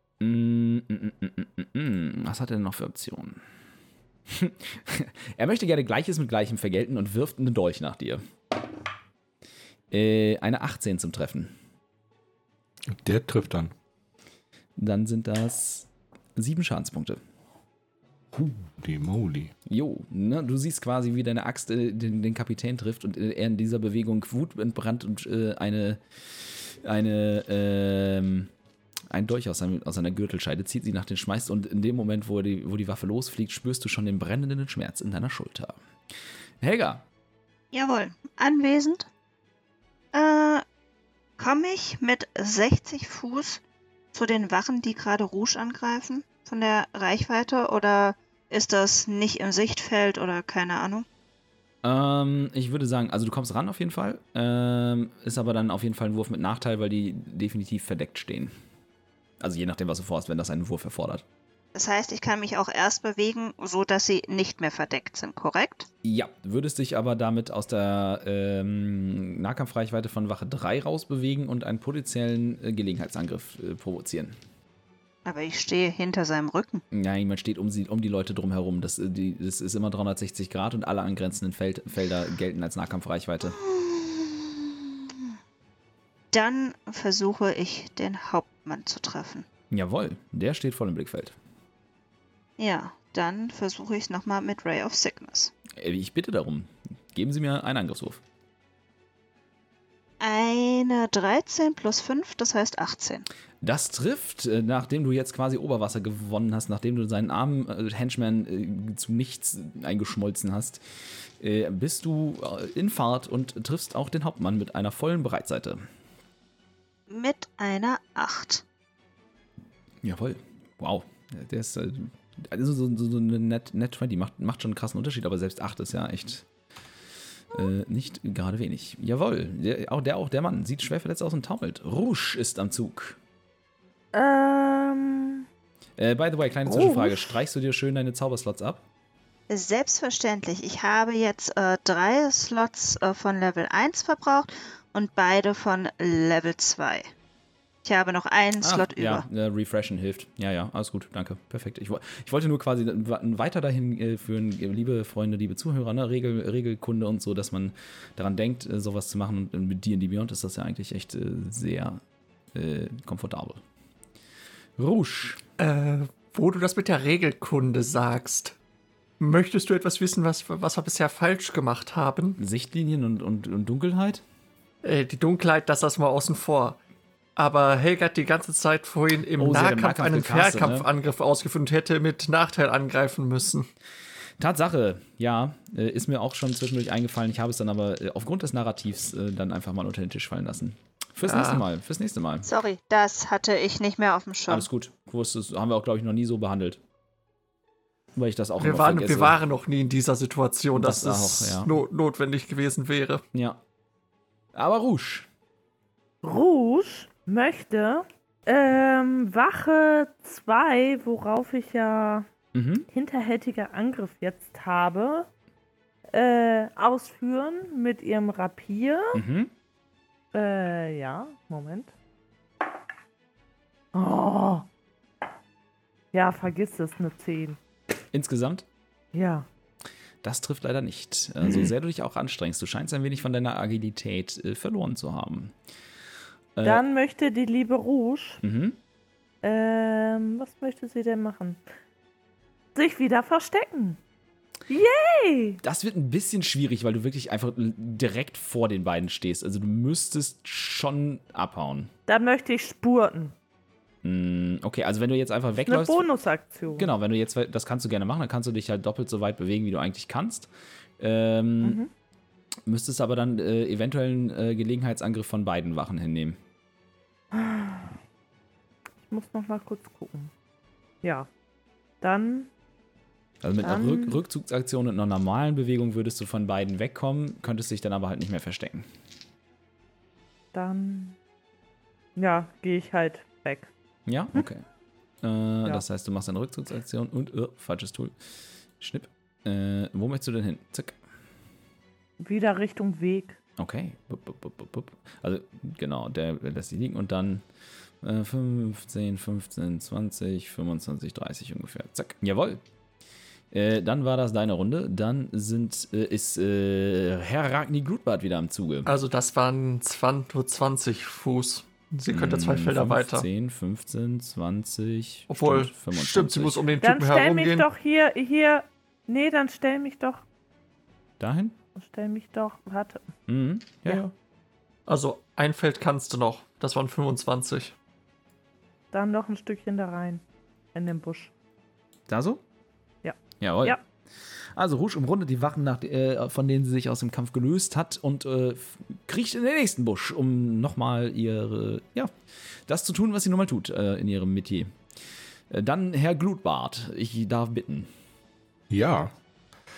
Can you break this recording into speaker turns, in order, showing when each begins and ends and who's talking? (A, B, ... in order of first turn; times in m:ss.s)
0:00.2-0:03.4 A
0:04.3-0:08.2 A
0:09.9-0:11.6 A
0:12.9-0:13.7 B
0:14.8-0:17.2 A
0:18.3-0:19.5 B
0:19.7-0:28.5 A
0:29.1-0:35.8 A
0:36.6-0:37.0 A
0:37.7-0:39.1 C
0:40.1-0:40.6 C
0:41.4-0:43.6 C
0:44.1-0:51.1 C
0:51.8-0:58.5 A
0:59.4-1:01.2 A
1:01.8-1:05.9 C
1:06.0-1:14.4 A
1:15.2-1:16.8 C
1:16.9-1:23.6 A
1:23.5-1:25.1 C
1:26.3-1:29.5 C
1:29.7-1:31.4 A
1:32.6-1:35.5 C
1:35.8-1:38.2 A
1:40.2-1:43.3 C
1:43.6-1:50.8 A
1:51.4-1:55.8 A
1:57.1-1:58.6 C
2:00.0-2:06.4 A
2:07.5-2:13.2 A
2:14.1-2:15.5 D
2:16.0-2:18.8 A
2:16.7-2:17.2 D
2:19.5-2:27.1 C
2:27.8-2:29.2 C
2:28.6-2:42.0 A
2:42.6-2:43.6 A
2:44.8-2:45.4 A
2:45.6-2:48.6 E
2:49.2-2:52.4 E
2:52.4-2:54.2 A
2:54.8-2:56.8 E
2:57.4-3:03.7 E
2:59.4-3:00.9 A
3:04.4-3:12.5 A
3:11.2-3:11.6 E
3:12.5-3:14.7 C
3:14.5-3:16.8 A
3:18.2-3:19.4 A
3:18.6-3:23.2 E
3:20.8-3:21.8 A
3:23.3-3:23.6 A
3:24.6-3:25.3 A
3:26.2-3:32.3 D
3:32.5-3:32.9 A
3:32.9-3:35.3 D
3:36.1-3:39.2 D
3:39.1-3:39.5 A
3:40.3-3:41.9 D
3:43.9-3:44.7 D
3:46.1-3:47.6 D
3:48.1-3:48.7 A
3:49.1-3:49.5 D
3:50.2-3:55.5 A
3:56.6-3:56.8 A
3:56.6-3:58.4 D
3:58.4-3:58.8 A
3:59.4-4:01.6 D
4:02.8-4:04.0 D
4:04.7-4:05.6 D
4:05.6-4:11.9 A
4:12.1-4:13.3 D
4:14.0-4:16.1 A
4:15.7-4:16.9 D
4:16.8-4:20.5 A
4:21.0-4:21.8 A
4:21.6-4:21.9 D
4:22.7-4:26.4 A
4:27.3-4:28.0 D
4:29.1-4:30.3 D
4:31.0-4:31.3 D
4:32.0-4:32.5 D
4:33.4-4:38.9 A
4:33.6-4:34.2 D
4:40.5-4:41.2 D
4:42.2-4:43.7 D
4:44.1-4:44.6 A
4:45.2-4:48.1 A
4:48.8-4:51.0 A
4:52.2-4:53.4 D
4:53.6-4:57.4 A
4:58.0-5:02.6 A
5:03.5-5:08.9 A
5:08.9-5:13.3 E
5:12.1-5:16.6 A
5:15.3-5:17.7 E
5:16.8-5:20.2 D
5:21.2-5:21.6 A
5:21.8-5:23.0 D
5:23.3-5:24.1 A
5:24.9-5:27.8 E
5:28.9-5:30.2 D
5:30.7-5:31.3 D
5:32.1-5:32.4 A
5:33.0-5:33.8 D
5:33.4-5:33.8 A
5:34.6-5:42.1 A
5:42.7-5:44.7 A
5:45.5-5:47.9 A
5:48.7-5:49.1 B